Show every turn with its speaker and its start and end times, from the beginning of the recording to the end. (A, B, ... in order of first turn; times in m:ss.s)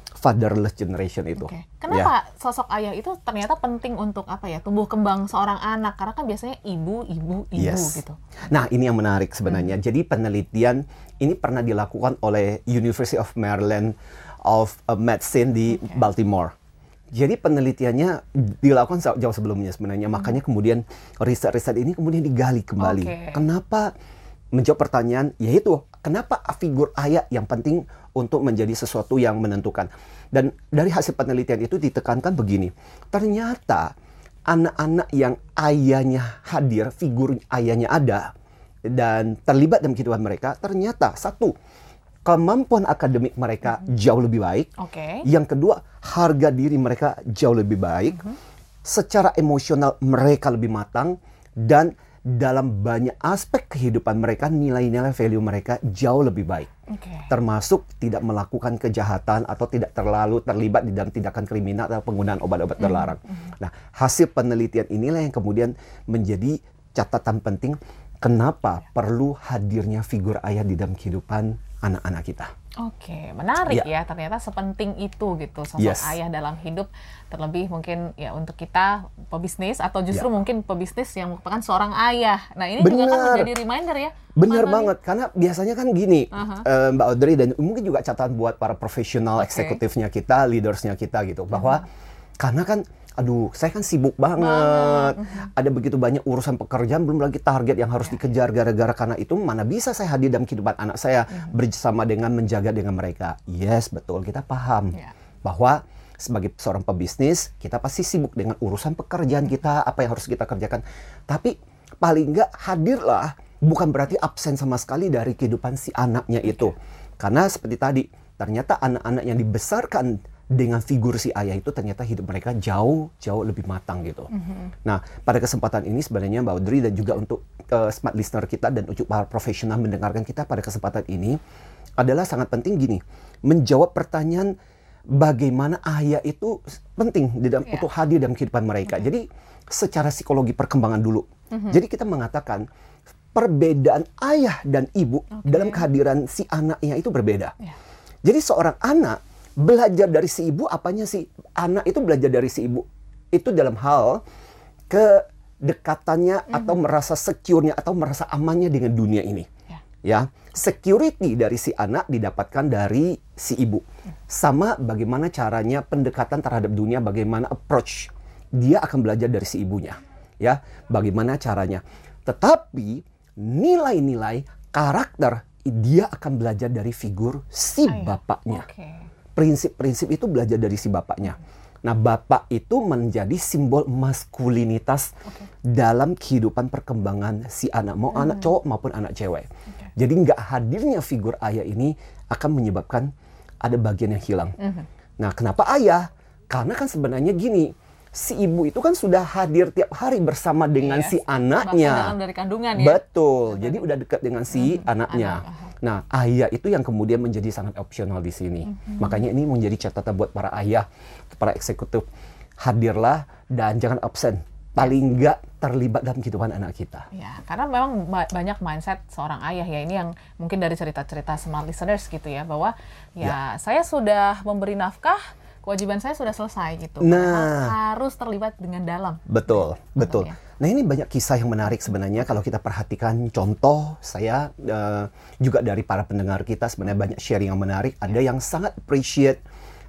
0:00.2-0:02.1 A
0:01.4-0:08.2 B
0:07.6-0:14.0 A
0:14.5-0:16.5 A
0:15.7-0:16.0 B
0:17.1-0:23.9 A
0:22.8-0:23.4 B
0:24.6-0:33.9 A
0:34.5-0:38.3 A
0:38.9-0:41.5 A
0:42.3-0:44.7 A
0:44.8-0:45.2 B
0:45.2-0:56.7 A
0:56.9-0:57.3 B
0:57.3-1:12.5 A
1:02.8-1:03.3 B
1:12.8-1:24.9 B
1:15.8-1:16.2 A
1:22.8-1:23.5 A
1:24.4-1:31.9 A
1:26.3-1:26.7 B
1:29.4-1:29.8 B
1:32.4-2:04.3 A
1:34.4-1:35.4 B
2:04.4-2:04.7 B
2:04.8-2:11.4 A
2:12.0-2:14.5 A
2:15.2-2:22.6 A
2:23.4-2:27.6 A
2:25.3-2:25.9 B
2:28.2-2:34.2 A
2:34.9-2:39.5 A
2:40.0-2:58.7 A
2:57.9-2:59.0 B
2:59.4-3:05.2 A
3:05.7-3:13.1 A
3:08.2-3:08.5 B
3:13.6-3:14.6 A
3:14.6-3:14.9 B
3:15.2-3:22.2 A
3:20.8-3:23.9 B
3:22.7-3:32.1 A
3:24.5-3:25.7 B
3:28.7-3:29.2 B
3:32.6-3:37.1 A
3:37.1-3:50.4 B
3:47.0-3:47.8 A
3:49.3-3:59.4 A